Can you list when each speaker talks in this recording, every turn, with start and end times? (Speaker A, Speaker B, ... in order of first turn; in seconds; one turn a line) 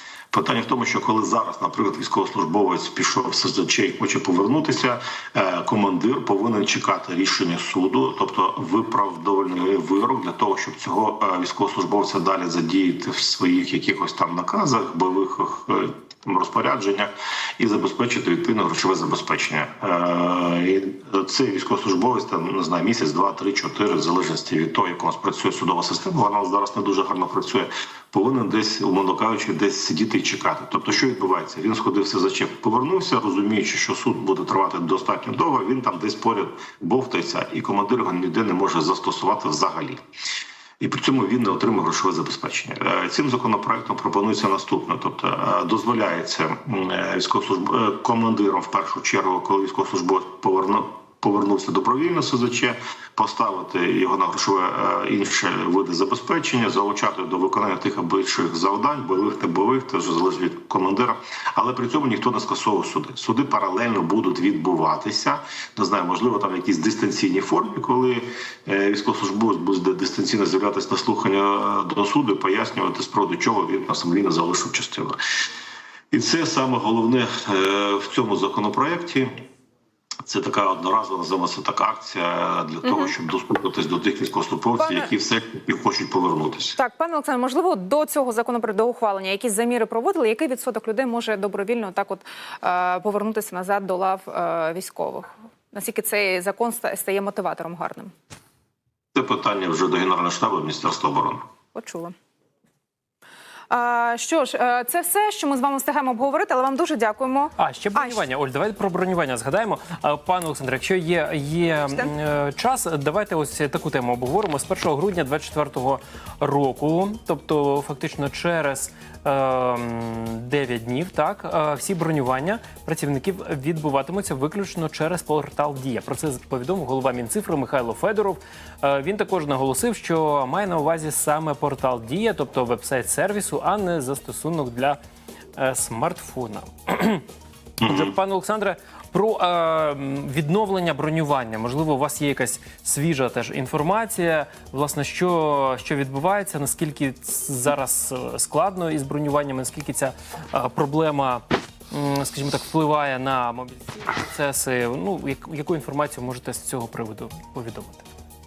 Speaker A: 0.3-40.0
Speaker A: 40.8-75.2
Speaker A: 76.1-79.3
Speaker A: 80.3-86.8
Speaker B: 84.8-85.1
Speaker B: 86.8-98.1
Speaker A: 99.1-101.4
Speaker B: 101.7-102.1
Speaker B: 103.7-108.2
Speaker C: 107.6-135.0
Speaker B: 111.8-112.1
Speaker C: 135.6-137.2
Speaker A: 137.8-138.1
Speaker C: 137.8-158.1